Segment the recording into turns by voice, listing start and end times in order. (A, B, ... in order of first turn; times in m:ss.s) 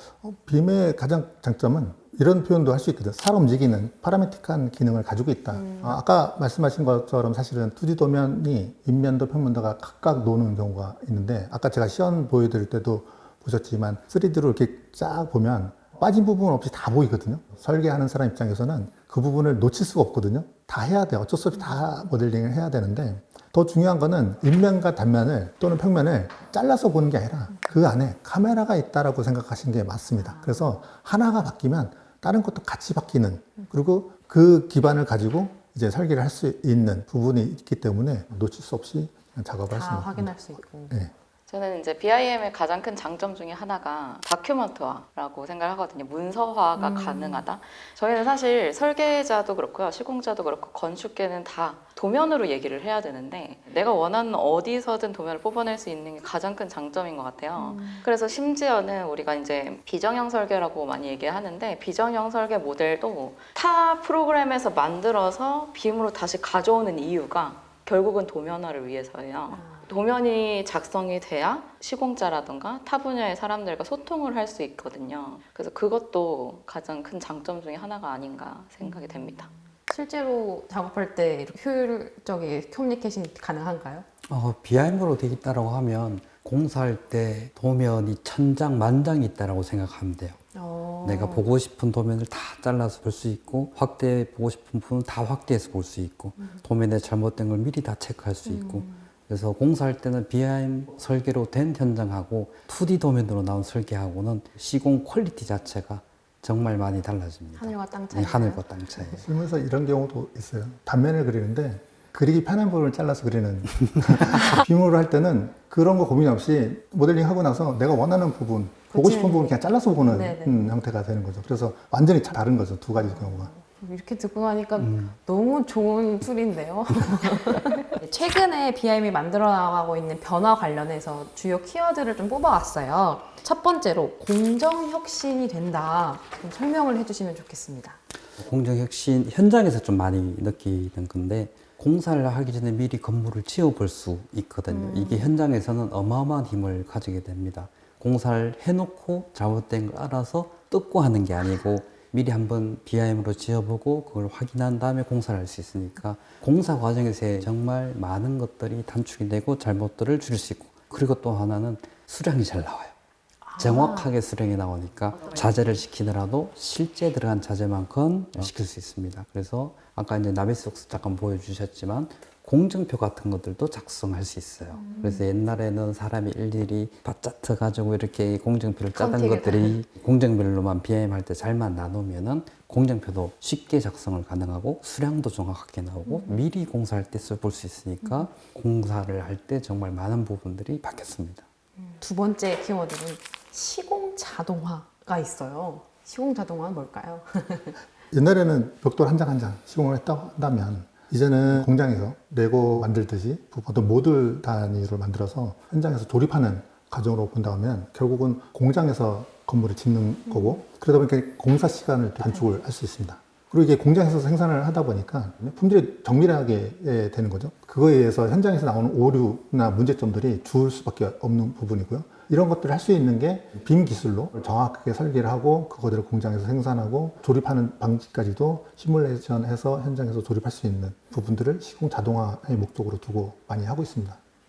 0:00.2-0:40.4 A
0:05.5-0:06.0 B
0:30.2-0:30.6 B
0:39.7-0:41.0 B
0:41.5-1:19.5 C
0:46.8-0:47.4 B
0:57.6-0:58.0 B
1:09.5-1:09.9 B
1:19.9-1:24.1 B
1:24.3-1:30.4 D
1:30.6-1:31.5 B
1:31.0-1:49.2 D
1:38.5-1:39.0 B
1:47.6-1:48.6 B
1:49.2-2:03.5 A
1:58.9-2:00.8 B
2:03.0-2:18.0 B
2:04.8-2:05.2 D
2:18.4-2:42.9 D
2:24.7-2:25.3 B
2:43.4-2:44.1 B
2:43.6-3:11.4 D
2:54.8-2:55.2 B
2:59.0-2:59.8 B
3:06.1-3:06.4 B
3:08.0-3:08.3 B
3:11.8-3:17.8 B
3:18.1-3:54.2 A